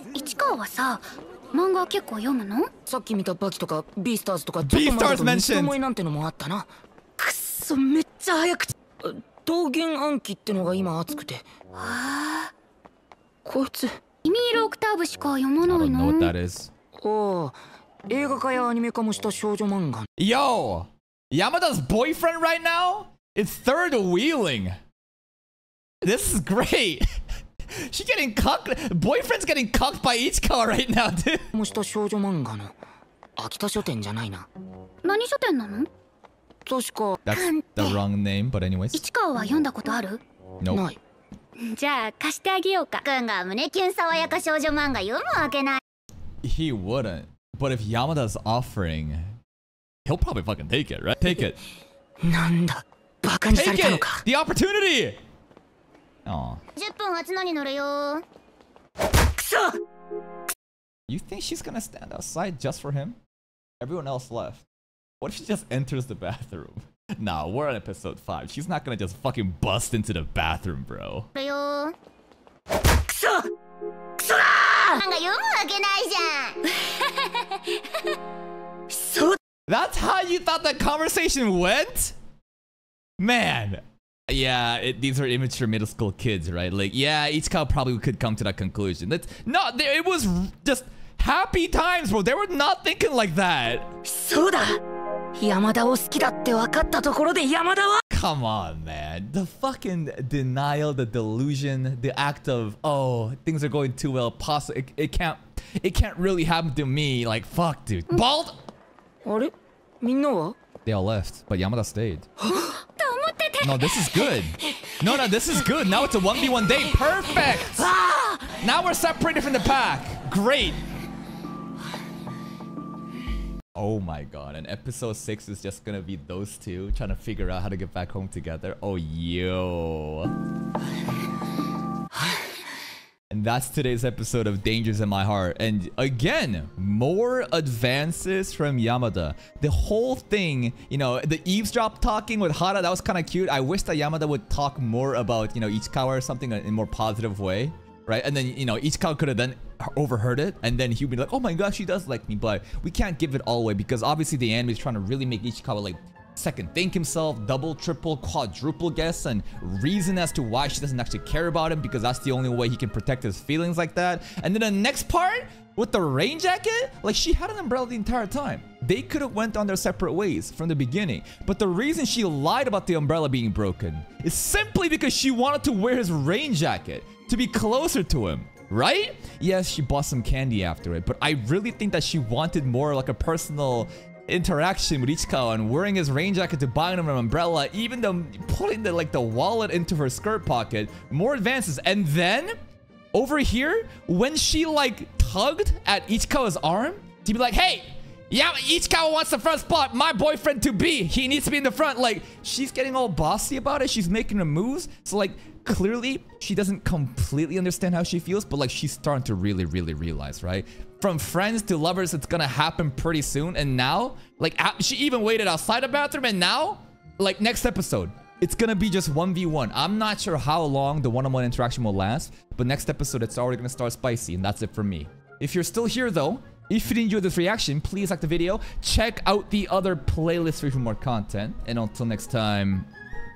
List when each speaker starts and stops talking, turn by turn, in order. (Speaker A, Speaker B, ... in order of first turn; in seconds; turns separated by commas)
Speaker A: 0.1-2.7, Speaker B: 2.9-11.5, Speaker C: 4.6-5.8, Speaker A: 11.7-12.5, Speaker B: 13.4-14.0, Speaker A: 14.2-16.3, Speaker C: 15.6-16.7, Speaker B: 17.0-20.1, Speaker C: 20.2-24.8, Speaker C: 26.0-27.1, Speaker C: 27.7-31.5, Speaker B: 31.5-32.7, Speaker B: 33.4-34.5, Speaker A: 35.0-35.9, Speaker B: 36.6-37.5, Speaker C: 37.2-39.0, Speaker A: 38.9-40.2, Speaker C: 40.6-40.8, Speaker B: 40.7-41.0, Speaker A: 41.6-43.0, Speaker D: 43.0-45.8, Speaker C: 46.4-49.4, Speaker C: 50.0-51.6, Speaker B: 52.2-54.2, Speaker C: 53.5-55.2, Speaker C: 56.2-56.6, Speaker D: 56.8-58.2, Speaker B: 59.2-59.8, Speaker C: 61.1-63.2, Speaker C: 63.8-64.6, Speaker C: 65.2-71.3, Speaker D: 71.3-71.9, Speaker B: 73.0-73.5, Speaker B: 74.2-75.0, Speaker D: 74.9-76.6, Speaker A: 76.8-77.8, Speaker B: 78.9-79.4, Speaker C: 79.7-82.1, Speaker C: 83.2-94.0, Speaker B: 94.0-94.8, Speaker B: 95.3-98.0, Speaker C: 98.1-108.6, Speaker B: 109.2-110.5, Speaker C: 110.8-112.3, Speaker B: 112.4-112.7, Speaker A: 112.6-114.3, Speaker C: 113.6-117.9, Speaker B: 117.5-118.6, Speaker C: 118.6-120.8, Speaker C: 123.8-130.3, Speaker C: 133.3-192.5, Speaker C: 193.1-232.9